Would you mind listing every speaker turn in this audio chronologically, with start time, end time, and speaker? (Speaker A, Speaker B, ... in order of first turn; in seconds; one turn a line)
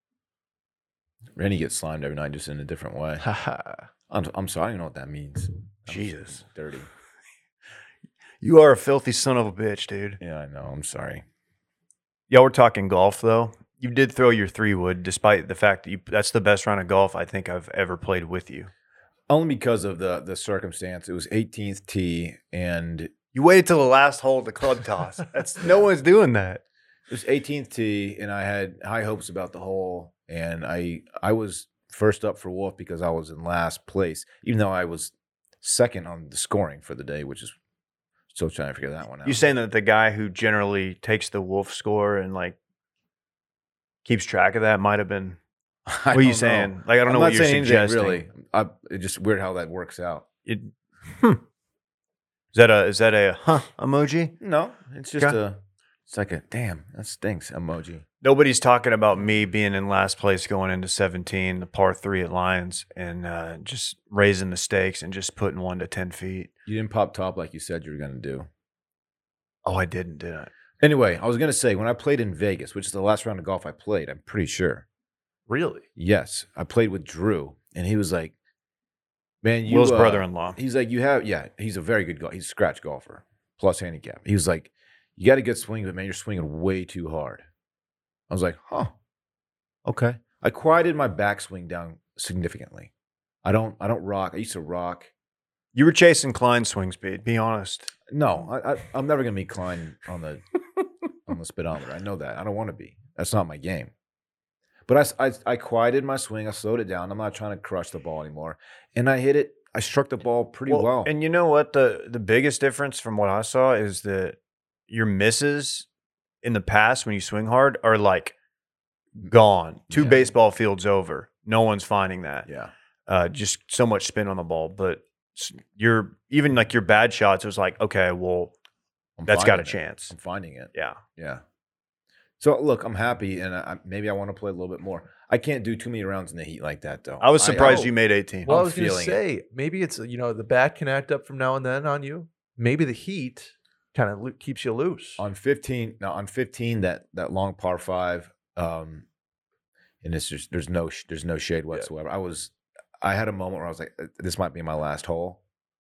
Speaker A: 1.4-3.2
Speaker B: 3.2-3.9
Speaker A: 4.1-6.9
Speaker C: 5.9-6.4
Speaker C: 8.4-10.2
Speaker A: 10.2-11.2
Speaker C: 12.3-18.7
Speaker A: 19.3-23.1
Speaker C: 23.3-26.6
Speaker A: 27.1-37.5
Speaker A: 38.3-39.4
Speaker C: 39.2-42.6
Speaker C: 44.0-45.4
Speaker A: 45.9-50.3
Speaker C: 46.1-48.2
Speaker C: 50.5-51.4
Speaker C: 52.5-54.4
Speaker A: 54.4-58.0
Speaker C: 58.2-66.5
Speaker A: 66.7-68.5
Speaker C: 69.7-70.5
Speaker A: 70.8-74.8
Speaker B: 75.5-75.8
Speaker A: 76.0-78.3
Speaker A: 79.4-87.4
Speaker C: 79.7-80.6
Speaker A: 88.3-88.9
Speaker A: 89.8-92.9
Speaker A: 93.4-95.1
Speaker C: 95.7-97.9
Speaker A: 98.1-100.4
Speaker A: 101.3-103.9
Speaker A: 104.9-111.1
Speaker C: 110.7-114.4
Speaker C: 114.9-115.9
Speaker C: 116.4-118.3
Speaker C: 119.2-122.5
Speaker A: 119.9-120.3
Speaker A: 122.5-122.7
Speaker C: 123.1-128.5
Speaker A: 129.2-131.4
Speaker C: 129.3-130.1
Speaker C: 130.7-131.0
Speaker A: 132.4-137.9
Speaker C: 137.2-138.5
Speaker B: 137.6-137.9
Speaker A: 138.5-139.2
Speaker B: 138.5-145.2
Speaker A: 145.2-149.1
Speaker A: 150.0-155.4